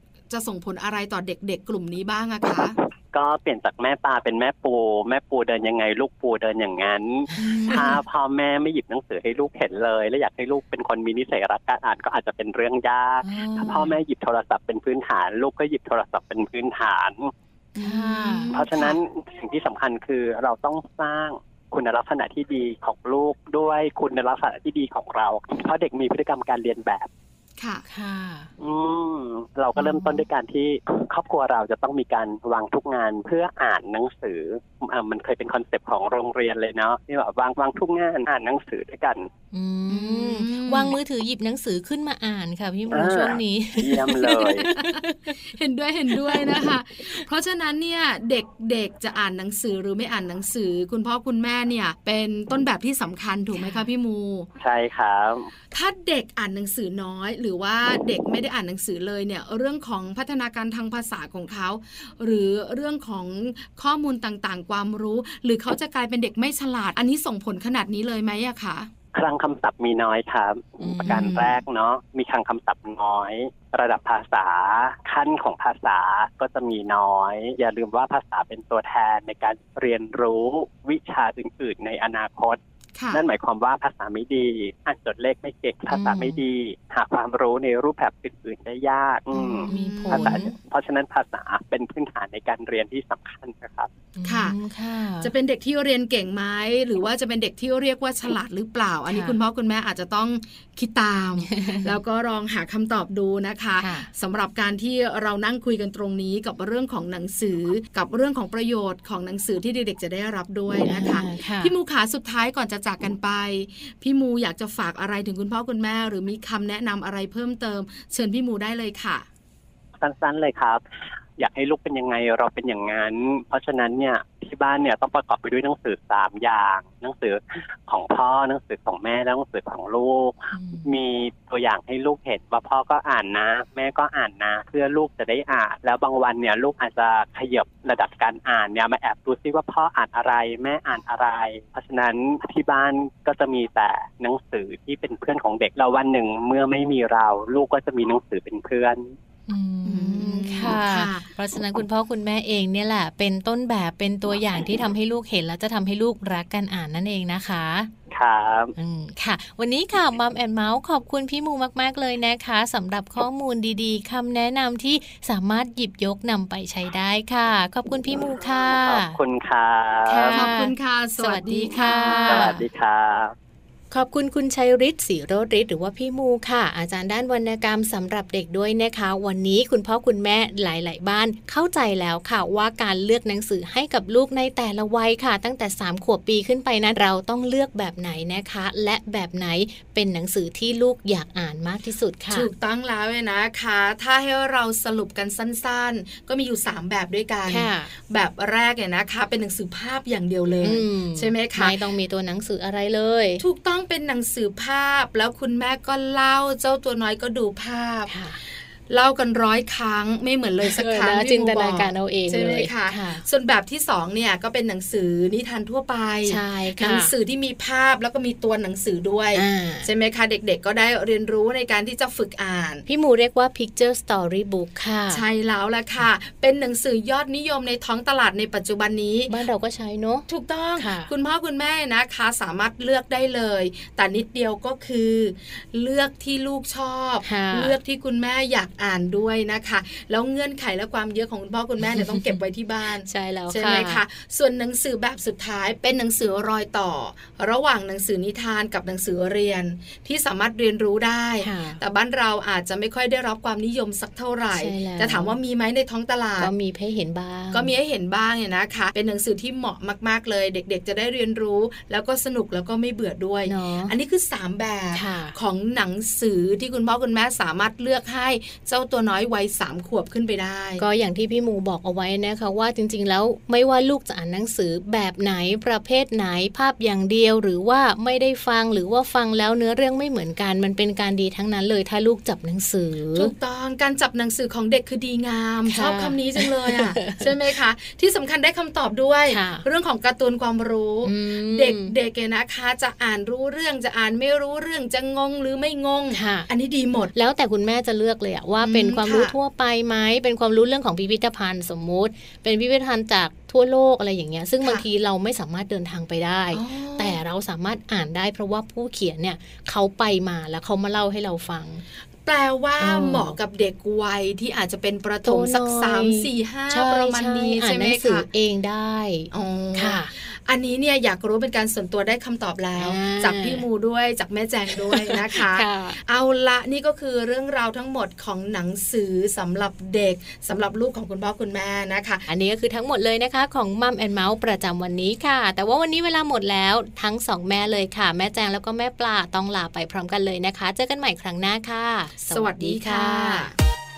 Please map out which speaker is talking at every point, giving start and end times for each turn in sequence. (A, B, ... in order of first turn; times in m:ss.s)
0:00.3-0:02.8 A
0:03.1-0:17.3 B
0:07.4-0:08.0 A
0:07.4-0:07.9 C
0:13.2-0:14.0 C
0:17.8-0:19.0 A
0:17.8-0:18.5 C
0:18.5-0:27.1 B
0:27.6-0:27.8 A
0:27.9-0:28.5 C
0:28.6-0:39.3 B
0:29.8-0:30.3 C
0:39.5-0:45.4 C
0:39.9-0:41.0 A
0:42.9-0:44.7 B
0:44.6-0:54.5 A
0:46.1-0:47.2 C
0:53.5-0:53.9 C
0:54.6-0:55.5 B
0:55.7-1:08.9 A
1:09.1-1:22.6 B
1:10.8-1:11.4 C
1:11.1-1:11.6 A
1:23.0-1:23.2 A
1:23.1-1:33.9 B
1:25.9-1:26.4 C
1:29.3-1:30.5 A
1:29.7-1:30.5 C
1:34.2-1:35.3 C
1:34.2-1:34.6 A
1:35.2-1:59.2 A
1:39.1-1:39.4 C
1:41.4-1:42.0 C
1:43.8-1:44.1 C
1:50.8-1:51.7 C
2:00.0-2:00.8 B
2:01.4-2:29.2 B
2:10.5-2:10.9 C
2:29.5-2:37.9 C
2:29.8-2:31.3 A
2:38.1-2:38.7 B
2:38.8-2:49.2 C
2:48.7-2:50.5 B
2:50.1-2:52.7 C
2:50.3-2:52.5 A
2:51.8-2:53.3 B
2:53.9-3:12.5 C
3:12.3-3:21.8 A
3:17.5-3:17.9 C
3:20.6-3:23.4 C
3:23.4-3:42.9 A
3:28.1-3:28.4 C
3:30.6-3:33.2 C
3:36.3-3:37.1 C
3:39.4-3:39.9 C
3:42.9-3:45.2 C
3:45.1-3:49.3 A
3:49.3-3:51.1 C
3:50.3-4:16.5 A
3:57.2-3:57.8 C
4:01.8-4:02.4 C
4:03.0-4:04.0 C
4:11.4-4:11.8 C
4:14.6-4:15.4 C
4:16.4-4:17.7 C
4:17.5-4:30.8 A
4:23.5-4:24.0 C
4:24.9-4:25.4 C
4:30.8-4:43.3 C
4:43.2-4:57.1 A
4:45.7-4:47.3 C
4:49.3-4:49.6 C
4:51.0-4:51.9 C
4:56.1-4:56.5 C
4:57.1-5:11.8 C
4:58.6-4:59.3 A
5:06.5-5:07.2 A
5:12.2-5:18.3 A
5:12.8-5:13.4 C
5:15.2-5:20.1 C
5:19.3-5:32.2 A
5:22.8-5:23.6 C
5:24.8-5:26.0 C
5:32.3-5:43.5 C
5:42.2-5:43.6 A